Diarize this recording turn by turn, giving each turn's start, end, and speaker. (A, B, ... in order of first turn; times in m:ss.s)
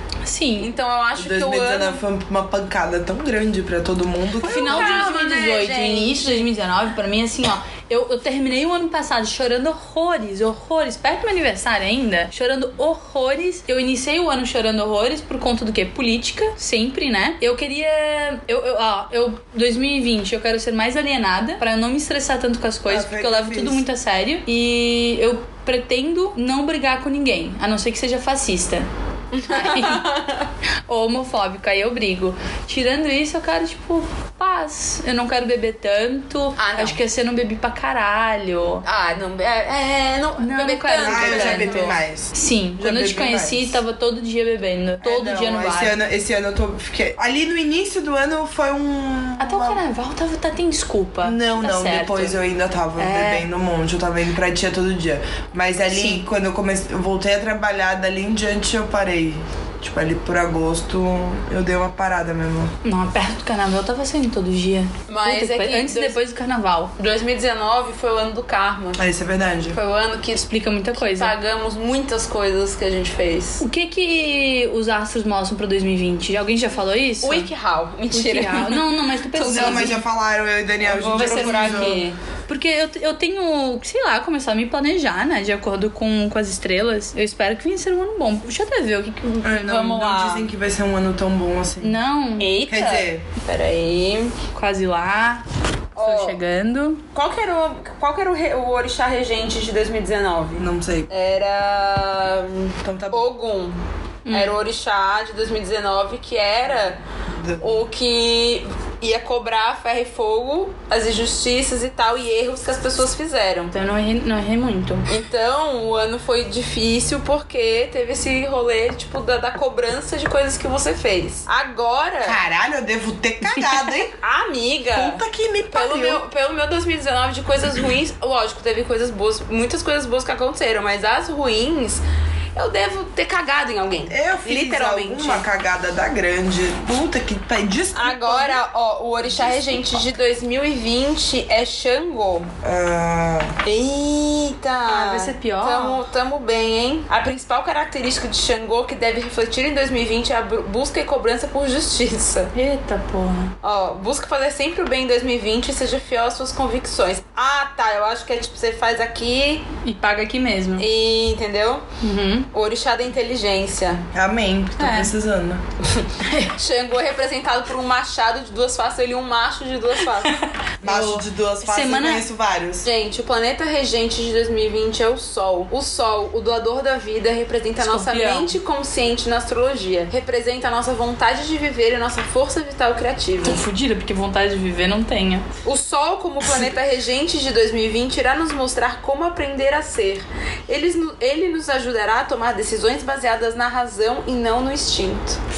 0:00.2-0:00.7 A
0:00.6-0:02.0 B
0:01.2-0:05.0 C
0:04.4-0:28.9 A
0:04.4-0:06.5 B
0:22.9-0:23.9 C
0:29.3-0:30.5 B
0:29.5-0:30.1 A
0:30.9-0:38.8 A
0:36.6-0:37.0 B
0:38.8-0:42.0 B
0:40.4-0:46.0 A
0:41.0-0:43.8 C
0:45.0-0:49.8 C
0:49.4-0:52.4 A
0:51.2-1:02.7 C
0:53.0-0:53.4 A
0:55.9-0:56.2 A
1:02.8-1:06.9 A
1:05.1-1:06.2 B
1:07.0-1:09.0 B
1:09.0-1:09.8 C
1:09.7-1:13.6 B
1:10.5-1:11.3 A
1:13.6-1:17.5 A
1:17.2-1:20.0 B
1:18.1-1:20.0 A
1:19.4-1:22.0 C
1:20.8-1:22.2 B
1:21.0-1:29.5 A
1:29.4-1:32.0 C
1:29.6-1:30.5 B
1:31.8-1:32.5 A
1:32.4-1:34.4 B
1:32.7-1:33.2 C
1:34.5-1:35.4 A
1:36.0-1:36.4 B
1:36.0-1:37.0 A
1:37.1-1:43.8 B
1:40.6-1:41.1 C
1:42.8-1:43.2 C
1:44.3-1:44.6 A
1:44.3-1:47.0 B
1:47.3-1:47.8 C
1:47.6-1:53.7 B
1:53.7-1:55.1 A
1:55.1-2:02.4 B
2:02.2-2:04.1 C
2:03.5-2:03.9 A
2:04.2-2:05.2 B
2:04.9-2:06.2 C
2:05.7-2:12.0 B
2:12.6-2:15.5 B
2:14.1-2:18.6 C
2:18.0-2:22.5 B
2:19.3-2:19.8 C
2:22.6-2:23.6 C
2:23.6-2:32.5 B
2:24.8-2:26.0 A
2:32.5-2:33.5 A
2:33.6-2:39.6 B
2:39.8-2:40.9 A
2:40.8-2:41.9 B
2:42.0-2:42.5 A
2:42.5-2:44.0 B
2:44.1-2:45.6 C
2:44.8-2:45.1 A
2:45.8-2:50.4 B
2:46.2-2:46.6 A
2:50.2-2:52.2 A
2:50.8-2:52.9 C
2:52.8-3:03.6 B
2:57.8-2:58.5 A
3:03.4-3:05.5 A
3:05.6-3:15.4 B